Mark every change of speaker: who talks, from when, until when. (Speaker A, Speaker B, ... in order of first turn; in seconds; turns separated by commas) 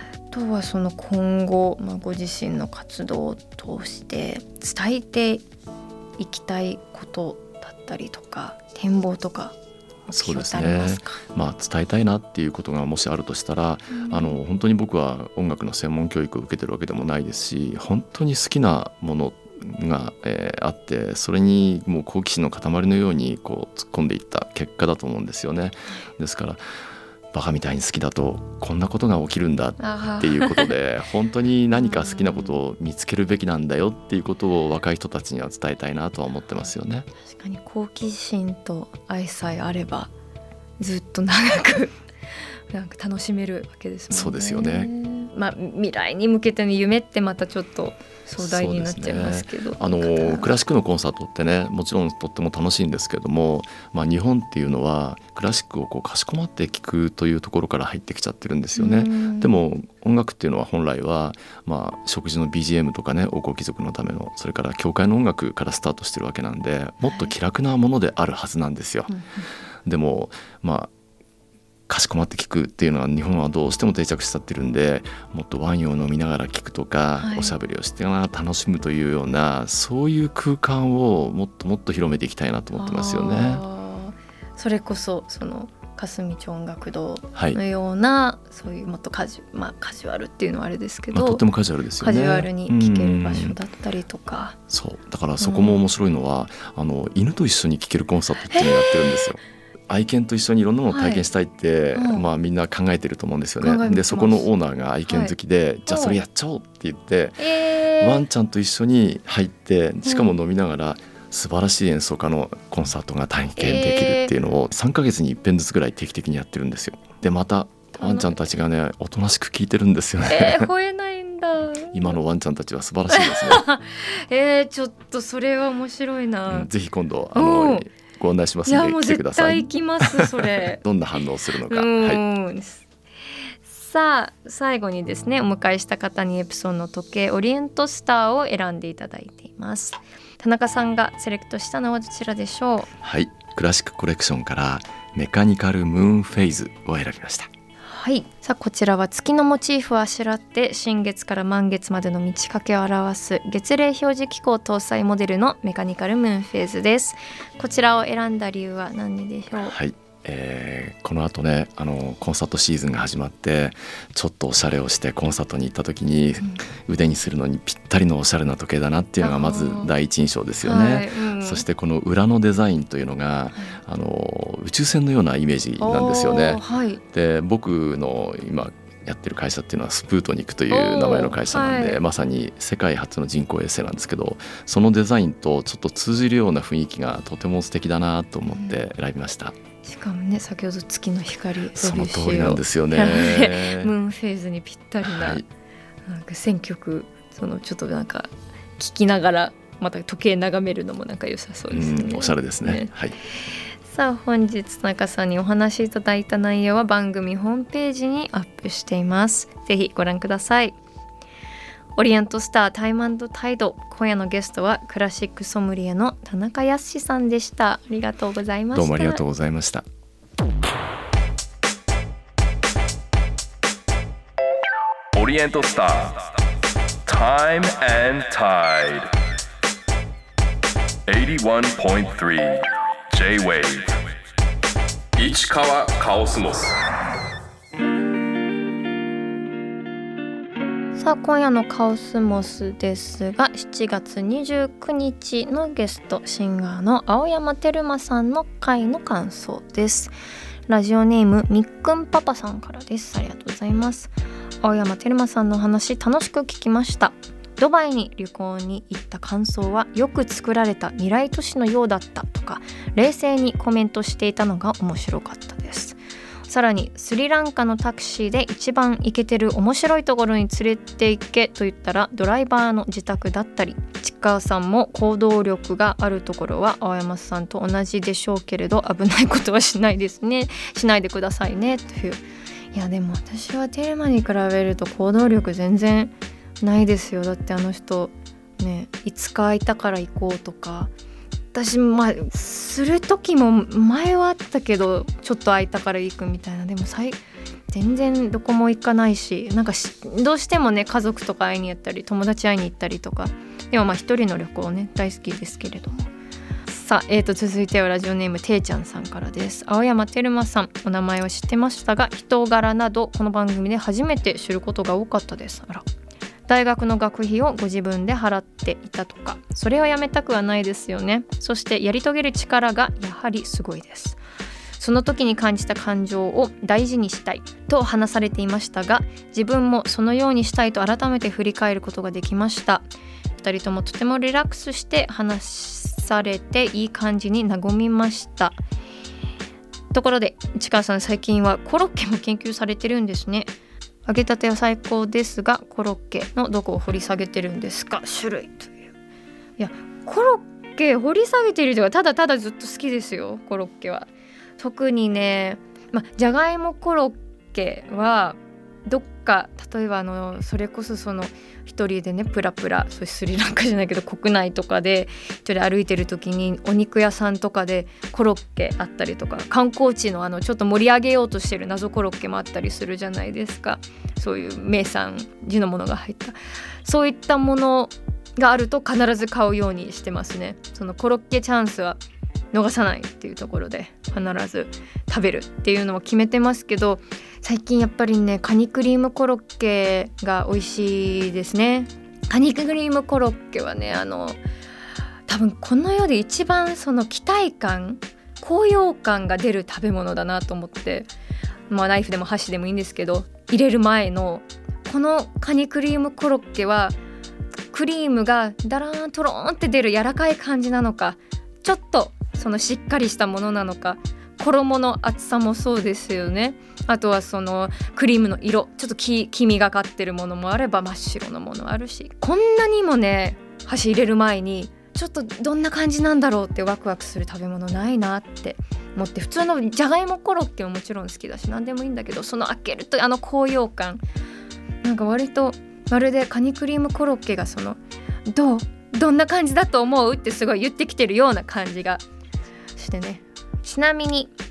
Speaker A: 0.3-5.4, Speaker A: 6.2-9.5, Speaker A: 10.1-11.2, Speaker B: 10.1-26.6, Speaker A: 13.9-14.3, Speaker B: 27.3-37.1, Speaker A: 29.8-30.7, Speaker A: 31.7-32.5, Speaker A: 37.3-40.1, Speaker A: 40.8-42.0, Speaker A: 42.7-50.5, Speaker B: 44.1-44.9, Speaker B: 48.4-69.1, Speaker A: 58.8-59.5, Speaker A: 67.0-67.3, Speaker A: 69.1-69.5, Speaker B: 69.8-70.9, Speaker B: 71.9-83.6, Speaker A: 77.2-77.5, Speaker A: 82.8-91.4, Speaker B: 91.1-93.5, Speaker A: 92.0-94.6, Speaker B: 94.7-120.7, Speaker A: 95.4-95.8, Speaker A: 98.5-99.2, Speaker A: 100.9-101.2, Speaker A: 101.9-102.2, Speaker A: 103.6-104.5, Speaker A: 105.1-105.3, Speaker A: 105.9-106.2, Speaker A: 107.4-108.2, Speaker A: 110.0-110.3, Speaker A: 113.6-114.3, Speaker A: 118.0-118.3, Speaker A: 120.3-122.1, Speaker B: 121.9-123.6, Speaker A: 123.1-126.7, Speaker B: 126.5-132.2, Speaker A: 127.3-127.9, Speaker A: 128.7-130.8, Speaker A: 131.7-132.8, Speaker A: 133.6-142.9, Speaker B: 143.0-147.5, Speaker A: 147.9-159.7, Speaker B: 159.6-189.6, Speaker A: 169.2-169.9, Speaker A: 170.6-171.6, Speaker A: 175.8-177.0, Speaker A: 180.7-182.0, Speaker A: 188.5-188.8, Speaker A: 189.8-195.4, Speaker B: 191.8-193.9, Speaker B: 195.0-195.4, Speaker A: 196.1-202.9, Speaker B: 201.7-203.2, Speaker A: 203.8-210.8, Speaker A: 211.9-219.2, Speaker B: 218.7-219.8, Speaker C: 225.1-226.3, Speaker C: 227.1-229.1, Speaker C: 231.1-234.0, Speaker C: 235.2-236.7, Speaker A: 240.9-250.1, Speaker A: 250.7-282.2, Speaker A: 282.7-290.9, Speaker A: 291.5-297.2, Speaker A: 297.7-306.1, Speaker A: 306.7-315.8, Speaker A: 316.5-324.2, Speaker A: 324.8-338.6, Speaker A: 339.9-343.5, Speaker A: 344.1-348.9, Speaker A: 349.6-382.0, Speaker A: 382.5-394.4, Speaker A: 395.3-401.1, Speaker A: 401.7-406.9, Speaker A: 407.7-434.0, Speaker A: 434.8-442.0, Speaker A: 442.8-444.3